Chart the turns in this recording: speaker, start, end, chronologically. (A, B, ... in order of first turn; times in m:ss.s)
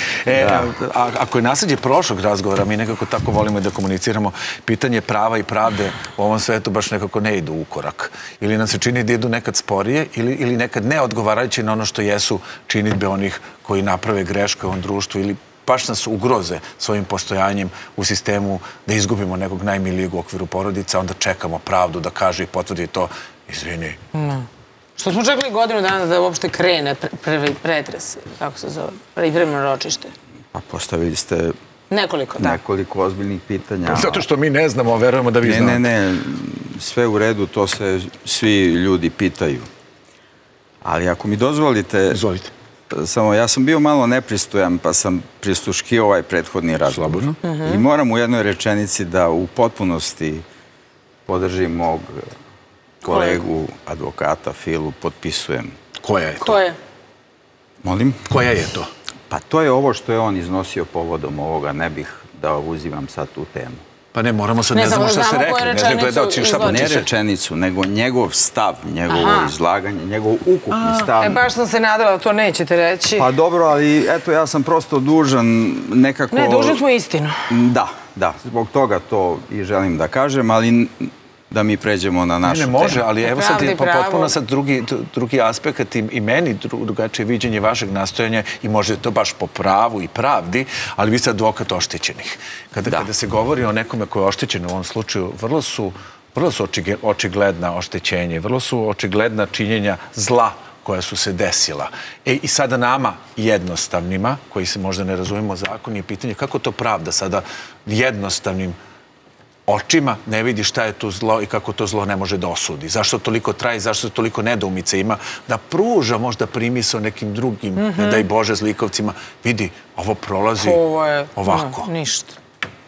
0:00.2-0:24.0 A
0:00.3-0:00.8 B
0:24.1-0:30.1 C
0:30.5-0:31.6 B
0:31.9-0:32.6 C
0:32.4-0:34.3 B
0:33.8-0:35.8 A
0:35.4-0:39.7 B
0:40.8-0:42.2 B
0:42.1-0:42.5 A
0:42.9-0:50.4 B
0:46.9-0:47.4 A
0:47.4-0:47.8 C
0:51.2-0:52.3 B
0:53.0-0:55.8 B
0:53.1-0:53.4 C
0:56.0-0:56.6 A
0:56.4-0:56.8 C
0:57.8-0:58.2 B
0:58.3-0:58.9 A
0:59.3-1:03.8 B
1:04.1-1:07.1 A
1:04.7-1:06.9 C
1:06.6-1:11.4 B
1:09.1-1:09.5 C
1:10.7-1:13.3 C
1:13.2-1:16.8 B
1:16.3-1:17.5 C
1:17.5-1:23.0 B
1:22.4-1:48.8 A
1:23.2-1:24.3 C
1:49.7-2:00.8 A
1:57.8-1:58.2 C
2:00.6-2:02.4 C
2:01.4-2:01.9 A